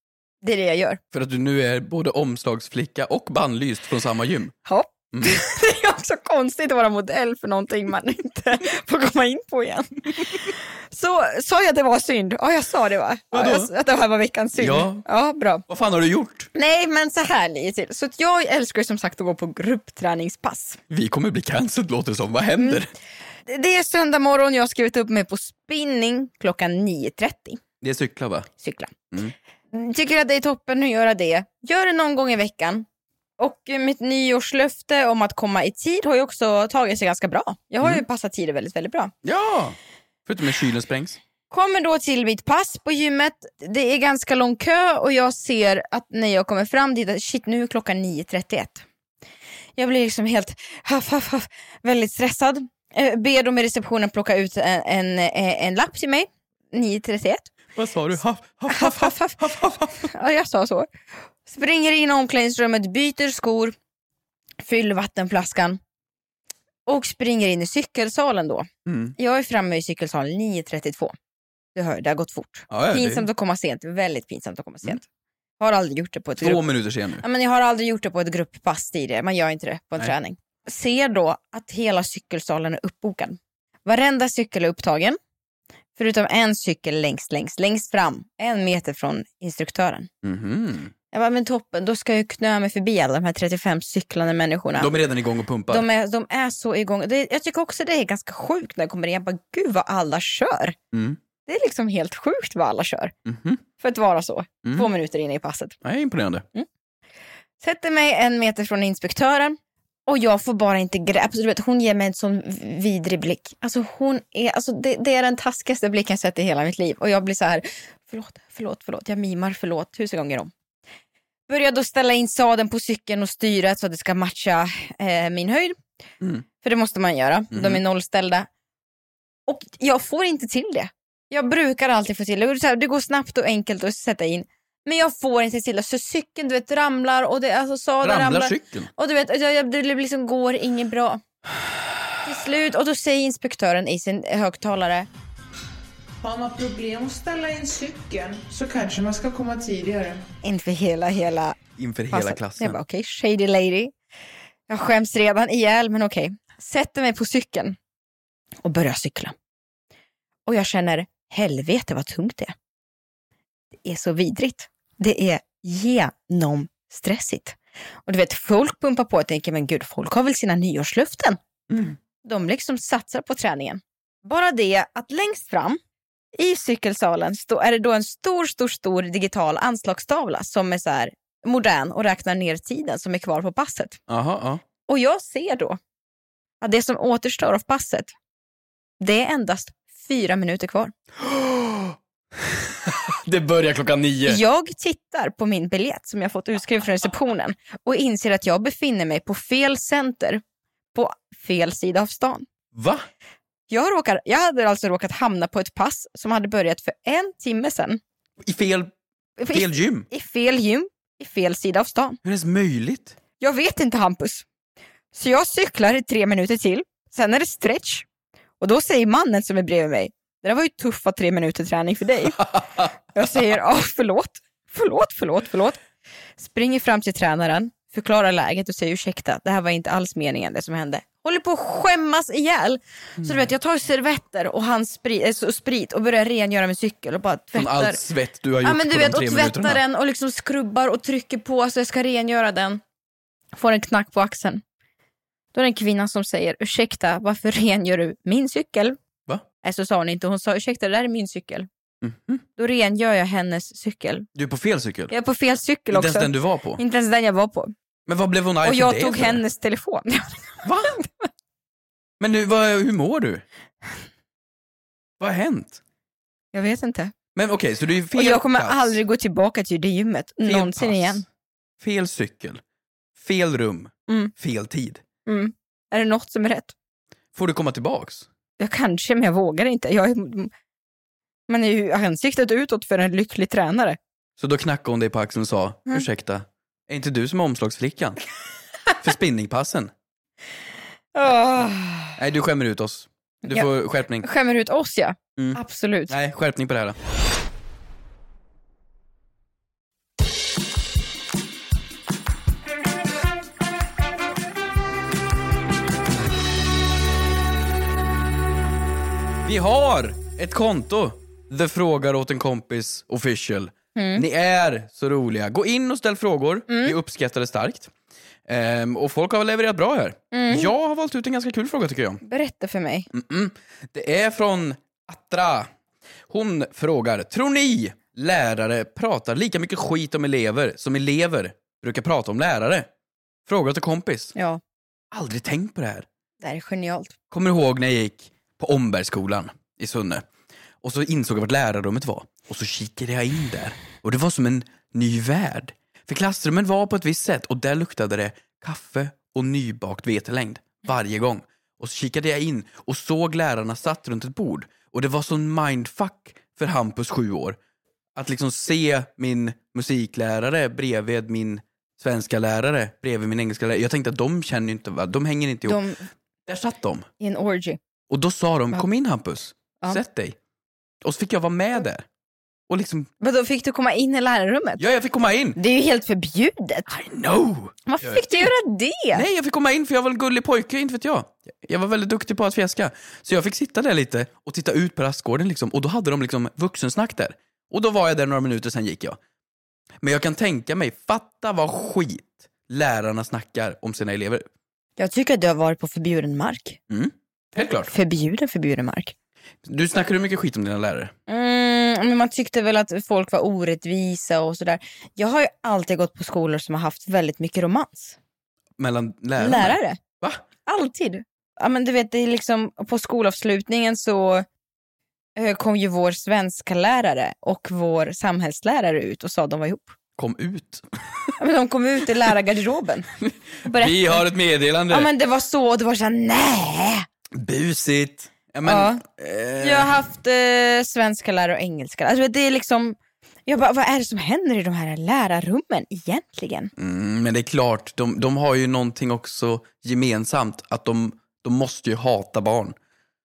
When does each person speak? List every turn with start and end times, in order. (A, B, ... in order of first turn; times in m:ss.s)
0:00.4-0:01.0 A
0:01.1-0:04.5 B
0:04.7-0:15.6 A
0:05.1-0:05.5 B
0:13.3-0:13.7 B
0:14.6-0:15.0 B
0:15.7-0:16.5 B
0:16.6-0:20.8 A
0:20.9-0:22.9 B
0:23.5-0:27.6 A
0:27.8-0:28.5 B
0:28.6-0:29.0 A
0:29.7-0:32.9 A
0:33.4-0:39.1 A
0:39.2-0:41.2 B
0:41.5-0:48.8 A
0:49.8-0:57.5 A
0:57.8-1:00.1 B
0:58.7-1:00.9 A
1:01.4-1:03.8 A
1:04.6-1:05.8 A
1:06.9-1:11.1 A
1:08.9-1:09.1 B
1:11.8-1:15.1 A
1:12.7-1:13.3 B
1:15.6-1:16.6 A
1:16.4-1:17.2 B
1:17.2-1:25.2 A
1:26.0-1:30.1 A
1:30.2-1:30.9 B
1:31.1-1:34.9 A
1:34.8-1:35.9 B
1:35.7-1:40.8 A
1:40.9-1:41.2 B
1:41.5-1:43.1 A
1:43.3-1:43.6 B
1:43.8-1:45.8 A
1:45.8-1:46.4 B
1:47.6-2:00.5 A
2:01.5-2:05.8 A
2:06.6-2:08.5 A
2:07.5-2:07.8 B
2:09.5-2:21.2 A
2:18.0-2:18.9 B
2:22.2-2:25.1 A
2:26.2-2:30.2 C
2:30.4-2:31.6 A
2:31.8-2:32.8 B
2:32.1-2:33.9 A
2:34.7-2:37.8 A
2:38.6-2:39.4 A
2:40.5-2:42.6 A
2:43.8-2:51.4 A
2:51.7-2:52.0 B
2:52.2-2:55.8 A
2:56.4-3:04.0 A
3:04.1-3:04.6 B
3:04.9-3:05.8 A
3:06.6-3:08.1 A
3:09.0-3:10.9 A
3:11.2-3:14.4 B
3:14.3-3:20.4 A
3:20.9-3:22.5 A
3:22.7-3:23.1 B
3:23.7-3:28.0 A
3:28.4-3:28.9 B
3:29.4-3:32.2 A
3:29.5-3:30.1 B
3:32.2-3:33.2 B
3:33.4-3:34.5 A
3:35.1-3:38.1 A
3:38.6-3:42.5 A
3:43.1-3:45.8 A
3:46.4-3:58.0 A
3:57.5-3:59.8 B
3:58.6-4:02.8 A
4:03.5-4:04.6 A
4:05.5-4:09.0 A
4:09.6-4:11.7 A
4:12.0-4:12.4 B
4:12.6-4:14.3 A
4:14.4-4:15.1 B
4:15.1-4:17.7 A
4:15.9-4:16.8 B
4:18.1-4:19.4 B
4:18.6-4:21.3 A
4:20.6-4:20.9 B
4:22.2-4:23.4 B
4:25.2-4:25.8 B
4:26.5-4:27.1 A
4:27.4-4:29.0 B
4:28.1-4:31.2 A
4:30.4-4:31.2 B
4:31.8-4:32.6 B
4:33.2-4:35.0 B
4:35.3-4:36.7 A
4:37.4-4:38.3 B
4:38.6-4:40.5 A
4:41.5-4:44.0 A
4:44.4-4:48.2 B
4:49.0-4:49.9 B
4:51.1-4:52.2 A
4:52.2-4:54.3 B
4:53.5-4:56.2 A
4:55.4-4:57.0 B
5:09.4-5:17.9 B
5:14.0-5:14.2 A
5:16.7-5:17.0 A
5:18.5-5:22.2 B
5:20.3-5:20.7 A
5:22.2-5:23.1 A
5:23.1-5:25.7 B
5:26.3-5:32.9 B
5:33.5-5:34.3 B
5:34.4-5:34.6 A
5:35.1-5:36.1 B
5:36.4-5:37.1 A
5:37.3-5:40.2 B
5:40.8-5:57.6 B
5:58.2-6:05.8 B
6:05.6-6:06.1 A
6:06.5-6:07.1 B
6:07.2-6:07.8 A
6:08.1-6:10.4 B
6:11.0-6:12.1 B
6:12.7-6:13.1 B
6:13.2-6:14.8 A
6:14.8-6:15.6 B
6:15.6-6:16.9 A
6:16.9-6:18.5 B
6:17.9-6:19.2 A
6:19.1-6:29.2 B
6:30.0-6:34.4 B
6:35.0-6:36.8 A
6:36.9-6:37.9 B
6:37.9-6:39.1 A
6:39.6-6:41.1 B
6:41.3-6:48.2 A
6:48.8-6:50.4 B
6:49.4-6:50.0 A
6:50.7-6:54.5 A
6:55.4-7:00.0 A
7:00.2-7:01.4 B
7:01.4-7:03.1 A
7:03.2-7:05.1 B
7:03.6-7:04.2 A
7:04.9-7:07.1 A
7:07.3-7:10.0 B
7:08.6-7:09.0 A
7:09.6-7:16.7 A
7:16.8-7:22.8 B